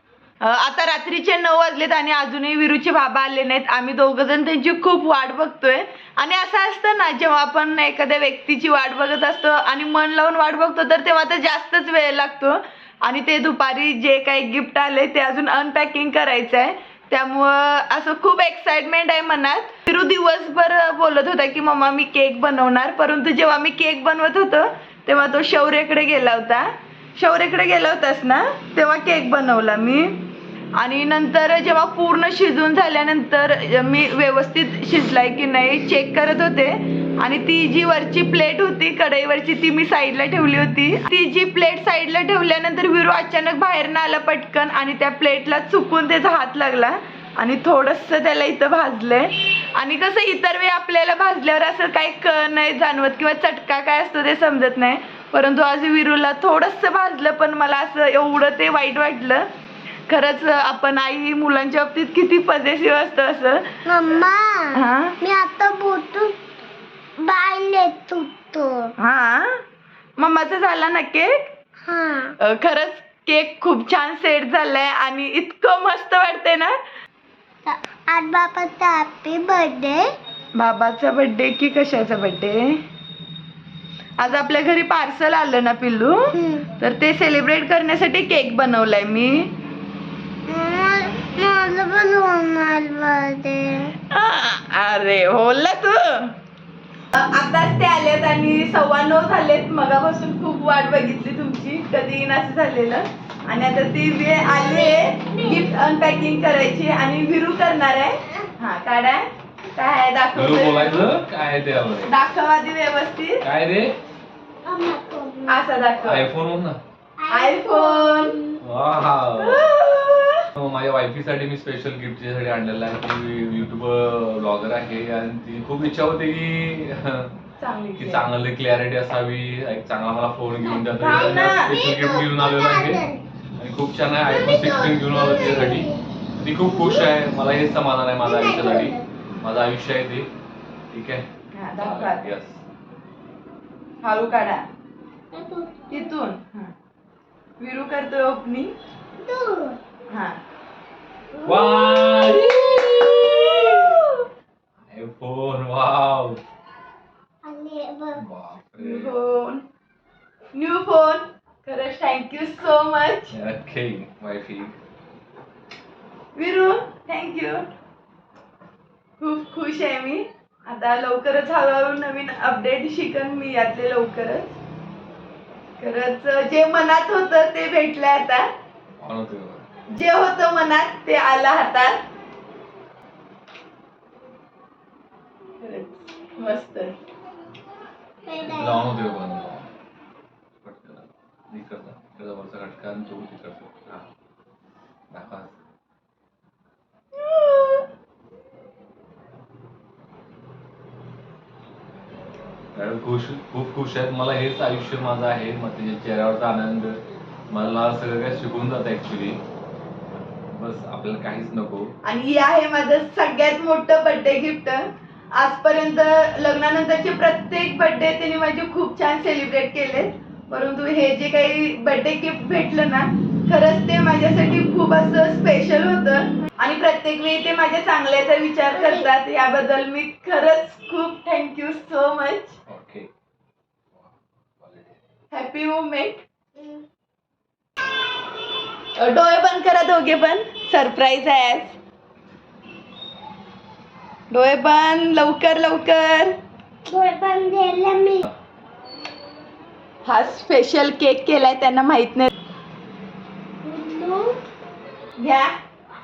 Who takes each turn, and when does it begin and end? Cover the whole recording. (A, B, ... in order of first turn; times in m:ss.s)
0:00.4-0:30.2 A
0:30.8-0:59.5 A
1:00.1-1:04.2 A
1:03.9-1:06.4 B
1:04.8-1:05.2 A
1:07.2-1:08.9 B
1:09.0-1:09.6 A
1:10.2-1:11.5 A
1:11.9-1:12.4 B
1:12.4-1:16.8 A
1:17.7-1:20.1 B
1:20.6-1:22.8 A
1:24.2-1:29.5 A
1:26.4-1:26.7 B
1:30.5-1:34.0 B
1:34.1-1:36.4 A
1:37.1-1:51.1 A
1:44.5-1:45.7 B
1:50.3-1:52.1 C
1:52.0-1:53.4 A
1:53.4-1:54.0 C
1:54.6-1:55.6 B
1:55.5-1:56.3 A
1:56.0-1:56.8 C
1:57.2-1:58.6 B
1:57.3-1:58.4 A
1:58.6-1:59.7 C
1:59.4-2:00.5 A
2:00.6-2:07.3 C
2:07.6-2:08.3 A
2:08.0-2:13.0 C
2:10.6-2:13.2 B
2:11.0-2:11.7 A
2:13.6-2:20.3 C
2:14.3-2:16.0 B
2:16.6-2:17.1 B
2:18.2-2:19.1 B
2:20.9-2:22.6 C
2:21.5-2:22.3 A
2:24.0-2:24.7 A
2:25.3-2:26.1 B
2:25.9-2:26.7 A
2:27.6-2:28.7 A
2:29.2-2:29.8 B
2:30.1-2:30.4 A
2:31.4-2:34.0 C
2:31.6-2:33.6 B
2:33.3-2:33.9 A
2:34.9-2:36.4 C
2:37.4-2:38.2 B
2:38.2-2:39.1 C
2:38.8-2:39.6 A
2:40.6-2:43.3 A
2:43.3-2:44.8 C
2:46.4-2:47.7 A
2:49.2-2:54.6 A
2:55.8-2:58.5 A
2:59.0-2:59.7 C
2:59.9-3:02.0 A
3:05.6-3:07.0 A
3:08.3-3:08.9 B
3:08.4-3:09.7 C
3:10.6-3:14.1 C
3:15.1-3:15.5 C
3:17.2-3:17.8 A
3:22.8-3:29.4 C
3:30.5-3:31.9 C
3:32.0-3:52.6 A
3:48.7-3:49.1 B
3:52.7-3:53.1 C
3:54.0-3:55.0 C
3:55.3-3:56.2 A
3:59.0-4:01.8 A
4:04.3-4:06.4 A
4:06.9-4:08.3 B
4:10.1-4:12.3 A
4:13.6-4:14.4 B
4:15.2-4:15.5 A